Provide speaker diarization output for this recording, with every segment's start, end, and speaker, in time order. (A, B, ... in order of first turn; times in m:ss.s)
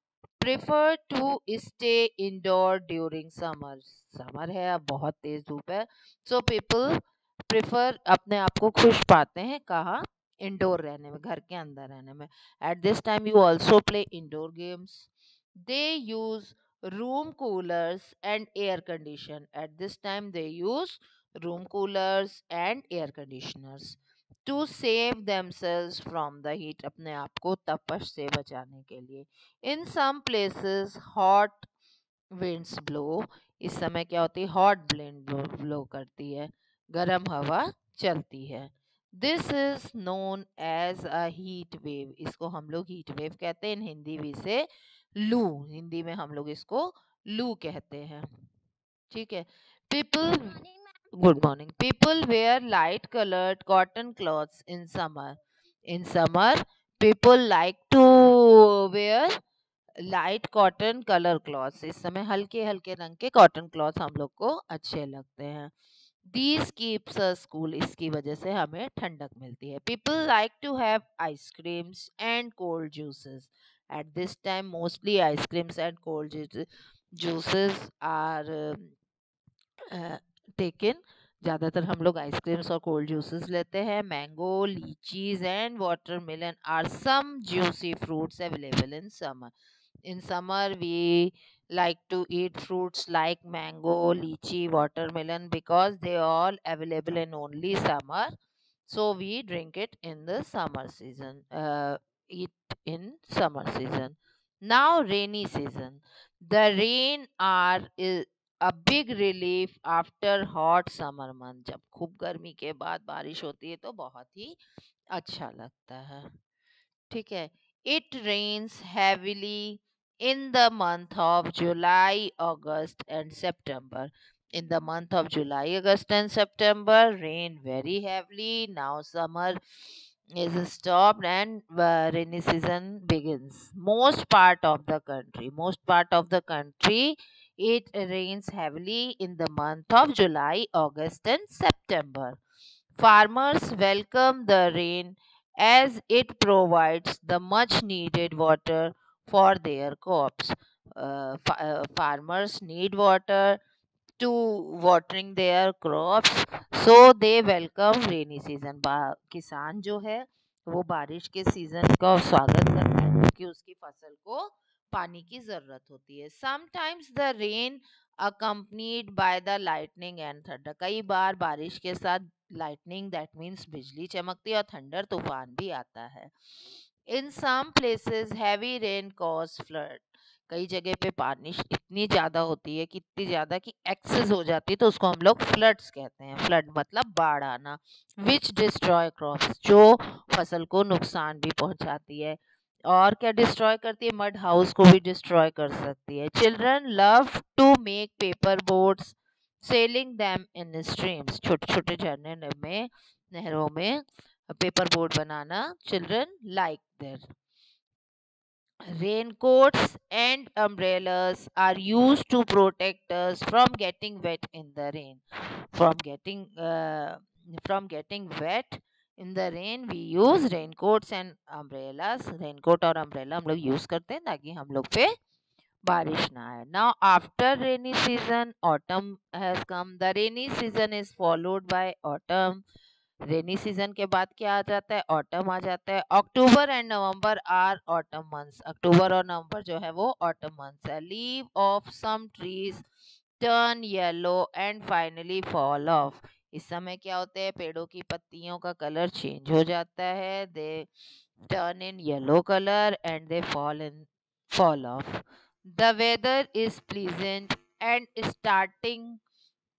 0:00.4-0:15.1 A
0:15.6-0:31.7 A
0:32.4-0:44.7 A
0:45.2-0:48.3 A
0:49.1-0:55.4 A
0:55.9-0:59.4 A
1:00.0-1:05.7 A
1:06.3-1:16.6 A
1:17.2-1:18.9 A
1:19.9-1:29.5 A
1:30.1-1:38.3 A
1:38.9-1:54.6 A
1:55.1-1:56.3 A
1:57.1-2:09.6 A
2:10.3-2:22.4 A
2:23.0-2:33.6 A
2:34.2-2:56.3 A
2:57.1-3:27.3 A
3:28.9-3:35.2 A
3:35.7-3:45.1 A
3:45.8-3:52.6 A
3:53.3-4:02.8 A
4:03.4-4:10.9 A
4:11.5-4:19.2 A